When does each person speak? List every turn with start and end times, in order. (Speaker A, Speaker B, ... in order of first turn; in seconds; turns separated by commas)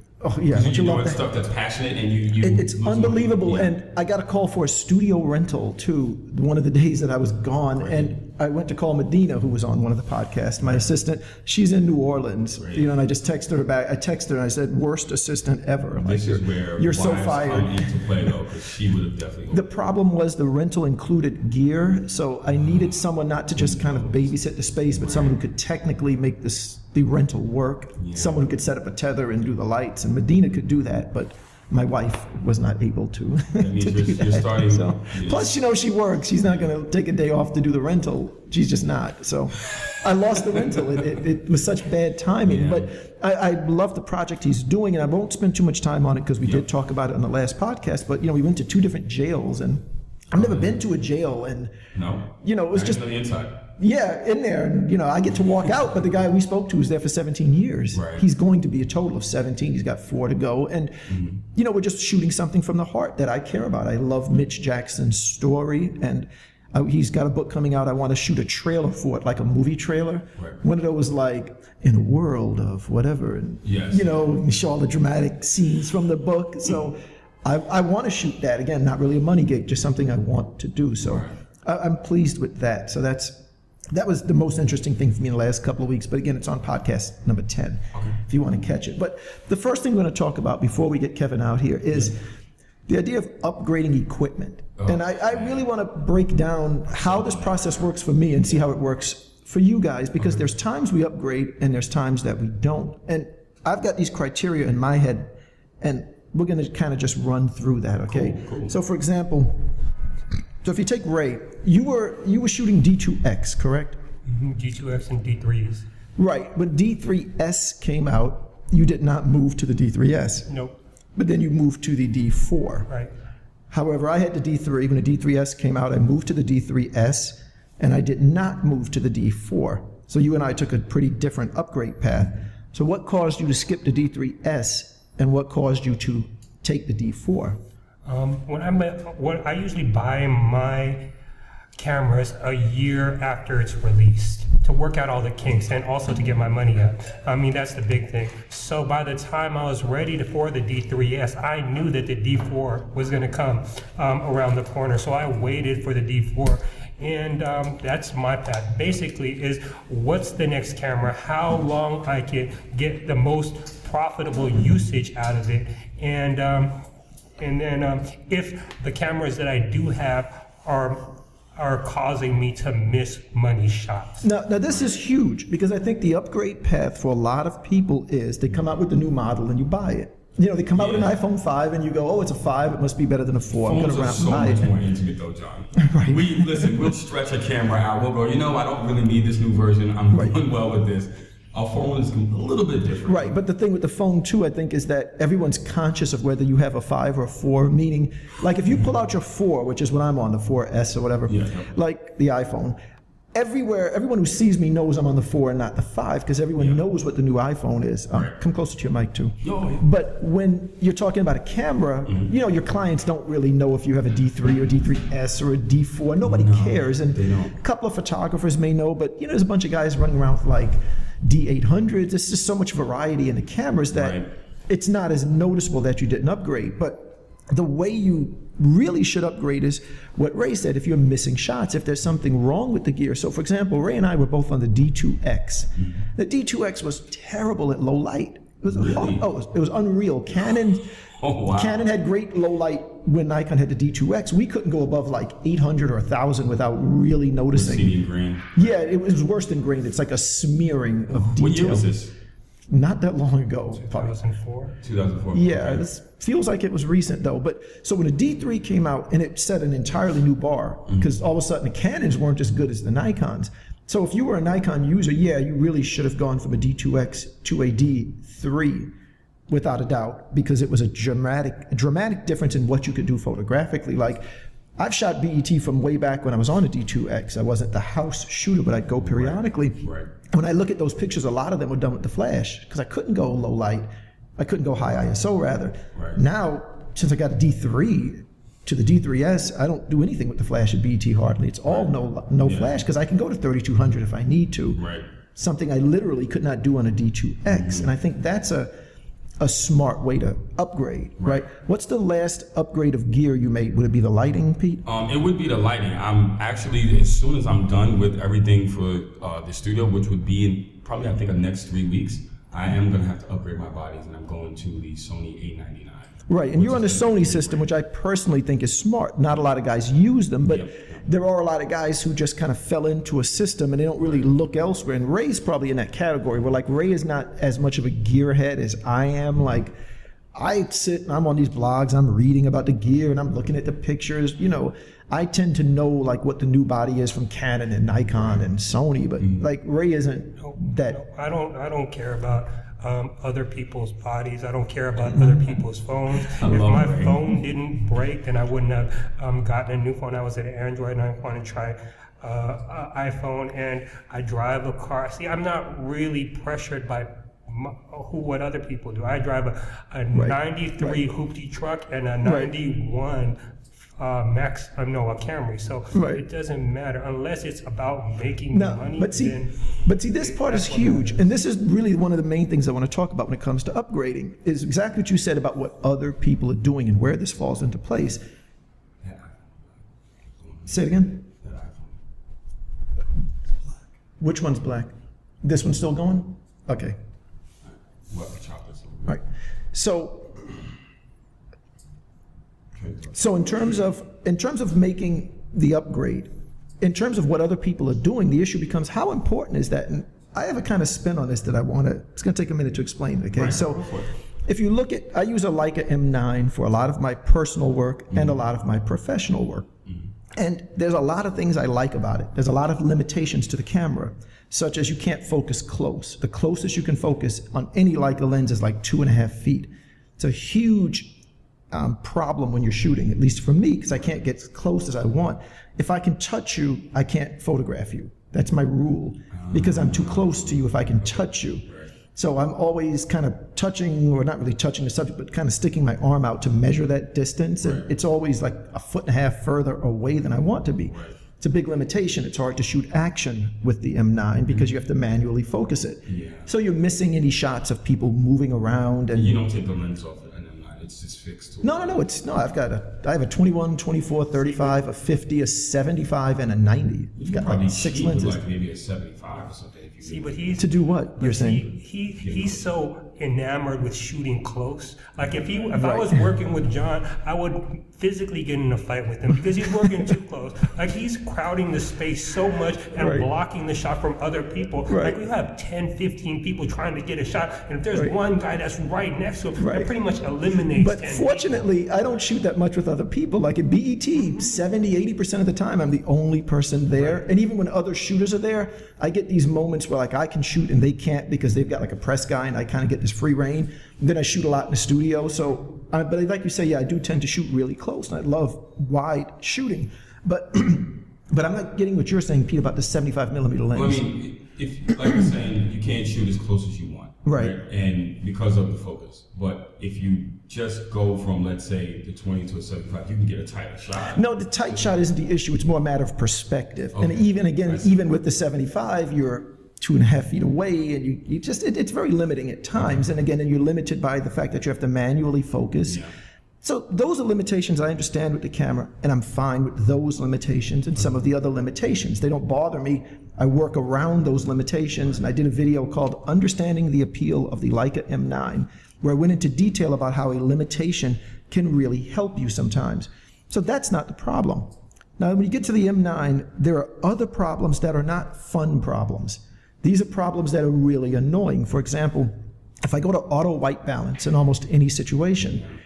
Speaker A: 0.2-1.2, Speaker B: 0.5-3.7, Speaker A: 2.4-18.1, Speaker B: 7.8-8.1, Speaker B: 12.6-12.9, Speaker B: 16.0-19.6, Speaker A: 19.5-51.8, Speaker B: 22.6-22.9, Speaker B: 23.6-24.3, Speaker B: 24.9-25.4, Speaker B: 28.0-28.4, Speaker B: 33.6-35.5, Speaker B: 42.4-42.9, Speaker B: 50.4-50.8, Speaker B: 51.9-53.6, Speaker A: 52.4-53.0, Speaker A: 53.8-92.2, Speaker B: 57.9-58.2, Speaker B: 61.1-61.4, Speaker B: 73.6-74.2, Speaker B: 81.0-81.3, Speaker B: 87.9-88.2, Speaker A: 92.9-109.7, Speaker B: 94.8-95.7, Speaker B: 96.9-97.9, Speaker B: 108.1-108.8, Speaker A: 110.6-114.0, Speaker C: 114.3-115.8, Speaker A: 116.2-120.5, Speaker C: 120.5-120.7, Speaker A: 121.2-122.9, Speaker A: 123.7-137.6, Speaker C: 138.1-141.1, Speaker C: 141.8-166.7, Speaker C: 167.4-174.2, Speaker A: 174.2-184.7, Speaker B: 180.8-181.1, Speaker B: 183.6-193.3, Speaker A: 185.8-186.8, Speaker A: 193.1-202.8, Speaker B: 201.3-201.8, Speaker A: 203.3-240.9, Speaker B: 209.4-209.8, Speaker B: 212.1-212.3, Speaker B: 216.2-217.6, Speaker B: 223.9-224.3, Speaker B: 238.7-239.2, Speaker B: 241.2-241.7, Speaker A: 241.5-248.0, Speaker B: 247.5-248.8, Speaker A: 248.5-251.9, Speaker B: 251.2-252.1, Speaker A: 252.7-254.1, Speaker C: 253.8-254.8, Speaker B: 254.8-255.8, Speaker A: 255.3-268.9, Speaker A: 269.5-274.2, Speaker A: 274.8-294.8, Speaker B: 279.0-280.1, Speaker B: 285.9-286.2, Speaker B: 291.7-292.7, Speaker B: 294.7-295.1, Speaker A: 295.4-298.7, Speaker B: 297.5-297.9, Speaker A: 299.4-304.8, Speaker B: 304.9-317.6, Speaker A: 316.3-329.7, Speaker B: 320.4-321.0, Speaker A: 330.4-341.0, Speaker C: 340.4-363.4, Speaker A: 345.1-345.4, Speaker B: 346.4-347.2, Speaker A: 360.1-361.0, Speaker A: 362.2-362.5, Speaker C: 364.0-371.3, Speaker A: 365.9-366.2, Speaker A: 368.5-378.2, Speaker B: 379.0-379.7, Speaker B: 380.4-380.7, Speaker A: 380.7-381.3, Speaker B: 381.4-381.9, Speaker A: 384.2-384.9, Speaker A: 385.4-387.0, Speaker B: 387.7-389.2, Speaker A: 389.1-390.4, Speaker B: 392.8-393.1, Speaker A: 393.1-396.3, Speaker A: 396.8-403.9, Speaker B: 403.3-404.1, Speaker A: 404.5-409.7, Speaker B: 408.1-408.4, Speaker A: 410.4-421.2, Speaker A: 421.7-449.4, Speaker B: 429.3-431.9, Speaker B: 437.6-437.9, Speaker B: 440.9-441.2, Speaker B: 446.1-446.5, Speaker B: 449.1-452.0, Speaker A: 451.6-458.4, Speaker B: 457.2-460.6, Speaker C: 460.0-481.6, Speaker A: 460.6-461.6, Speaker B: 462.2-462.7, Speaker A: 465.8-466.1, Speaker A: 473.0-473.3, Speaker A: 474.9-475.2, Speaker A: 479.6-479.9, Speaker A: 480.5-504.0, Speaker C: 484.3-484.5, Speaker B: 503.7-514.2, Speaker A: 507.2-507.6, Speaker A: 514.1-526.1, Speaker B: 517.0-517.9, Speaker B: 525.9-526.1, Speaker A: 526.6-555.7